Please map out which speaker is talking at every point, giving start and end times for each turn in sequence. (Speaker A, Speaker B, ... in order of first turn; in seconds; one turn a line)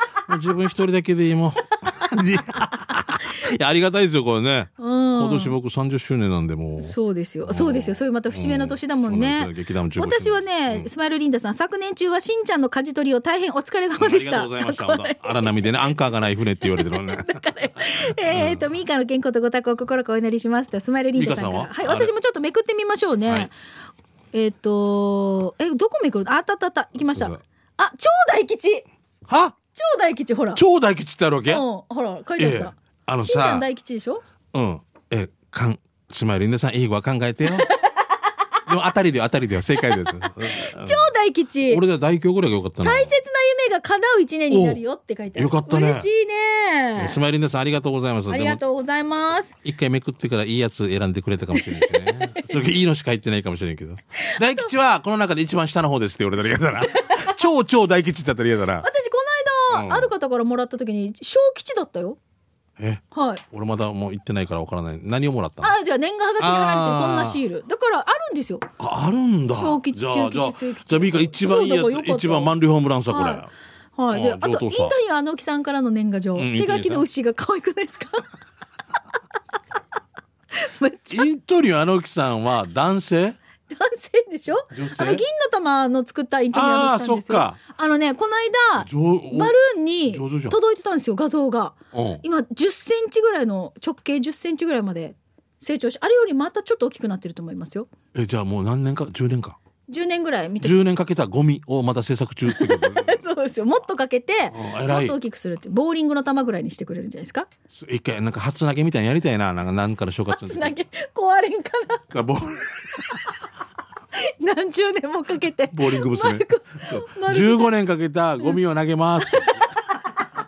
Speaker A: 0.3-10.9
Speaker B: 4.8-5.5
Speaker B: 6.8-15.6
Speaker A: 14.0-18.7
Speaker B: 16.6-23.5
Speaker A: 21.2-22.1
Speaker B: 24.3-28.9
Speaker A: 27.0-27.4
Speaker A: 29.3-29.6
Speaker B: 29.7-30.6
Speaker A: 30.6-31.6
Speaker B: 31.5-32.7
Speaker A: 32.4-33.7
Speaker B: 33.2-34.2
Speaker A: 34.5-37.7
Speaker B: 37.4-38.2
Speaker A: 38.7-41.1
Speaker B: 39.8-41.8
Speaker A: 41.7-43.1
Speaker B: 42.8-47.2
Speaker A: 44.5-44.8
Speaker A: 45.4-46.1
Speaker A: 47.0-48.6
Speaker B: 48.3-49.5
Speaker A: 49.6-58.9
Speaker B: 51.5-52.5
Speaker B: 54.2-54.7
Speaker B: 57.0-57.4
Speaker B: 58.8-62.2
Speaker A: 59.7-60.1
Speaker A: 62.8-65.7
Speaker B: 63.1-63.4
Speaker B: 65.6-68.7
Speaker A: 66.4-67.4
Speaker A: 68.8-73.5
Speaker B: 69.5-72.5
Speaker B: 73.1-73.4
Speaker B: 74.0-78.3
Speaker A: 74.1-75.0
Speaker A: 76.4-77.1
Speaker B: 80.5-81.3
Speaker A: 81.1-83.4
Speaker B: 83.7-97.9
Speaker A: 84.7-85.2
Speaker A: 86.5-87.6
Speaker A: 88.8-89.5
Speaker A: 90.1-90.6
Speaker A: 91.9-92.2
Speaker A: 98.1-99.6
Speaker B: 99.9-100.8
Speaker A: 100.6-103.2
Speaker B: 102.5-107.5
Speaker A: 104.5-105.2
Speaker A: 107.7-110.8
Speaker B: 110.3-112.1
Speaker A: 112.1-113.3
Speaker B: 114.2-117.7
Speaker A: 115.7-119.6
Speaker B: 119.2-119.7